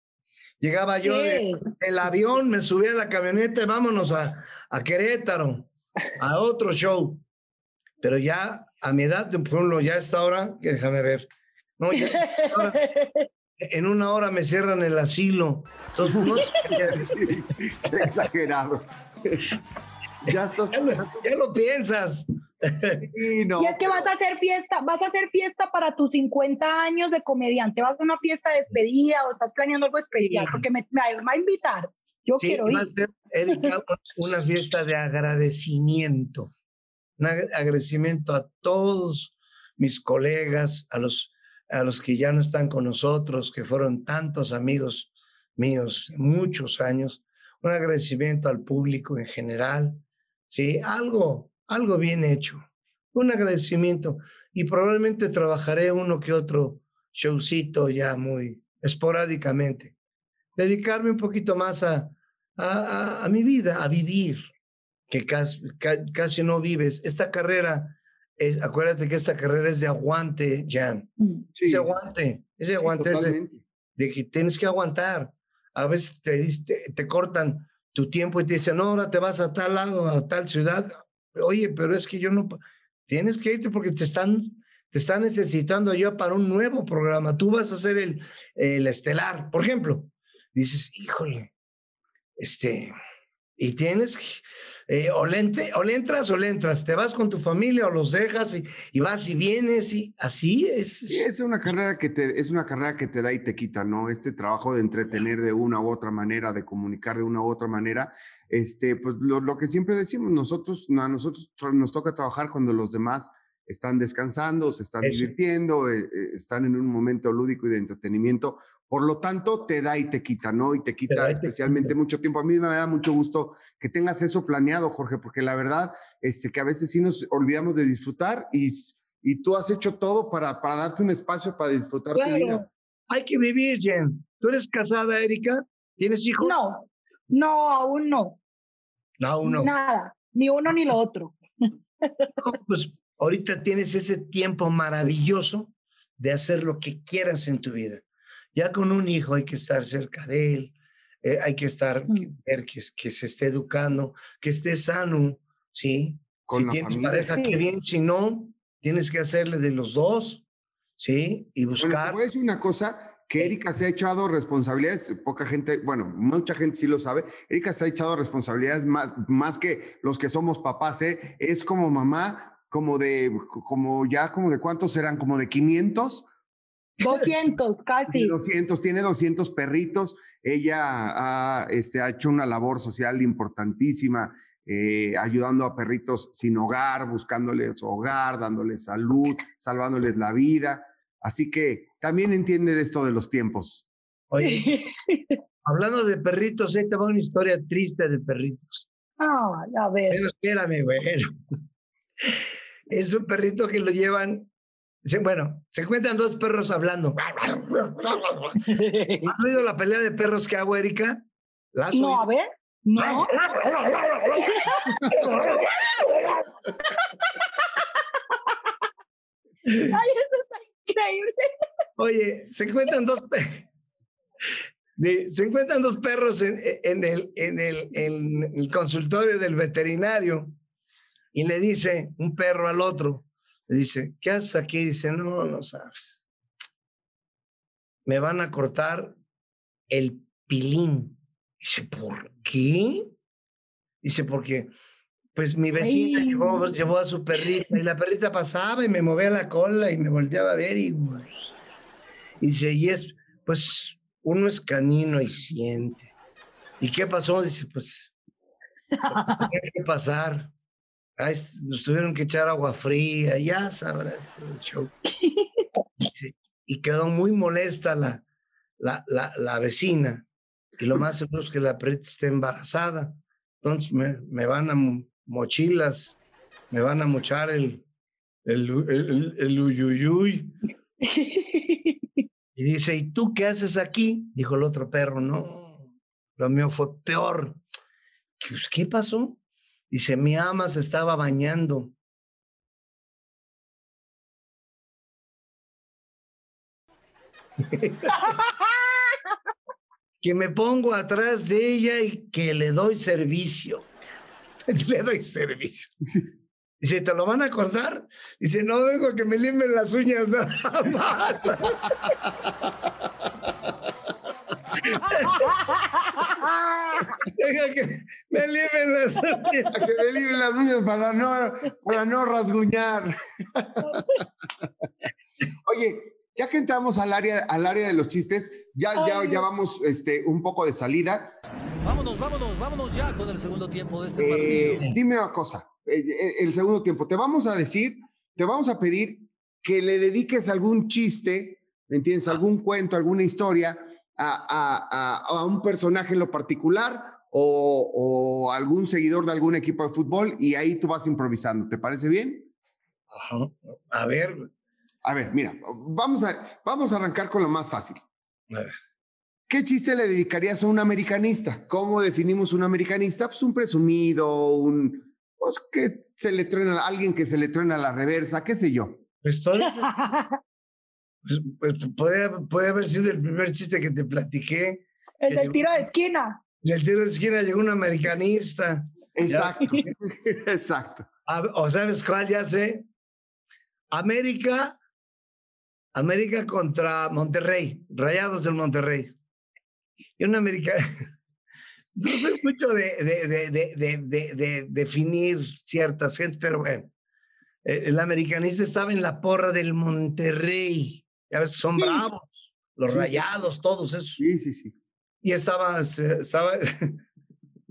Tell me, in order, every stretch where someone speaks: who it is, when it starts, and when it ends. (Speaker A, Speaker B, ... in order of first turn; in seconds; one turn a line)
Speaker A: 0.6-7.2
Speaker B: 1.0-1.6
Speaker A: 8.0-12.8
Speaker B: 11.9-13.3
Speaker A: 13.6-17.3
Speaker C: 16.1-19.6
Speaker C: 20.2-21.3
Speaker A: 20.3-23.1
Speaker C: 23.0-24.1
Speaker B: 23.6-32.9
Speaker A: 30.2-30.6
Speaker A: 32.4-36.5
Speaker A: 37.2-59.9
Speaker A: 60.6-64.5
Speaker A: 65.1-73.4
Speaker C: 71.6-71.9
Speaker C: 72.8-73.6
Speaker A: 74.0-91.5
Speaker A: 92.4-92.9
Speaker A: 93.6-101.3
Speaker C: 101.1-132.7
Speaker A: 115.0-115.3
Speaker A: 121.1-121.9
Speaker B: 132.2-132.7
Speaker A: 133.1-136.6
Speaker B: 136.4-138.4
Speaker A: 139.2-139.7
Speaker B: 139.4-141.4
Speaker B: 142.0-142.3
Speaker A: 142.4-160.4
Speaker C: 156.5-157.4
Speaker B: 157.3-157.6
Speaker A: 161.0-162.2
Speaker C: 161.8-176.3
Speaker B: 177.0-178.3
Speaker C: 178.1-193.9
Speaker A: 194.3-194.7
Speaker B: 194.4-195.4
Speaker A: 195.7-198.9
Speaker B: 199.2-200.2
Speaker A: 200.1-201.3
Speaker A: 202.2-204.5
Speaker A: 205.0-208.7
Speaker B: 208.6-209.3
Speaker A: 209.2-212.3
Speaker B: 211.9-213.4
Speaker A: 213.0-216.5
Speaker B: 214.5-215.0
Speaker A: 219.7-219.9
Speaker B: 219.7-221.5
Speaker A: 222.0-223.7
Speaker A: 225.0-230.6
Speaker A: 231.3-236.2
Speaker A: 238.1-239.2
Speaker A: 239.9-243.1
Speaker A: 244.0-244.7
Speaker A: 245.3-251.5
Speaker B: 245.8-246.7
Speaker A: 252.4-256.1
Speaker A: 256.8-258.1
Speaker B: 259.1-259.5
Speaker A: 259.1-260.5
Speaker A: 261.2-264.9
Speaker B: 265.2-265.6
Speaker A: 266.1-268.2
Speaker A: 268.8-270.3
Speaker A: 270.8-276.2
Speaker A: 276.7-277.9
Speaker A: 278.4-280.6
Speaker B: 281.0-282.0
Speaker A: 282.6-287.6
Speaker A: 288.4-291.9
Speaker A: 297.6-298.3
Speaker B: 298.2-298.5
Speaker A: 300.2-303.9
Speaker A: 304.7-306.0
Speaker A: 306.8-311.9
Speaker B: 315.2-317.1
Speaker A: 317.3-319.8
Speaker C: 319.7-324.1
Speaker C: 325.7-331.3
Speaker B: 329.0-329.4
Speaker D: 331.8-334.9
Speaker C: 334.2-352.5
Speaker A: 353.1-354.5
Speaker C: 355.0-358.0
Speaker A: 358.5-358.8
Speaker C: 359.5-369.0
Speaker A: 369.2-369.9
Speaker B: 369.8-370.4
Speaker A: 371.2-375.8
Speaker B: 375.2-376.4
Speaker A: 376.6-379.9
Speaker C: 379.1-381.1
Speaker A: 381.3-382.9
Speaker A: 383.9-384.8
Speaker A: 385.9-389.1
Speaker A: 390.2-391.1
Speaker A: 391.9-396.9
Speaker A: 397.6-404.2
Speaker C: 402.9-403.3
Speaker C: 404.2-404.8
Speaker A: 405.2-407.0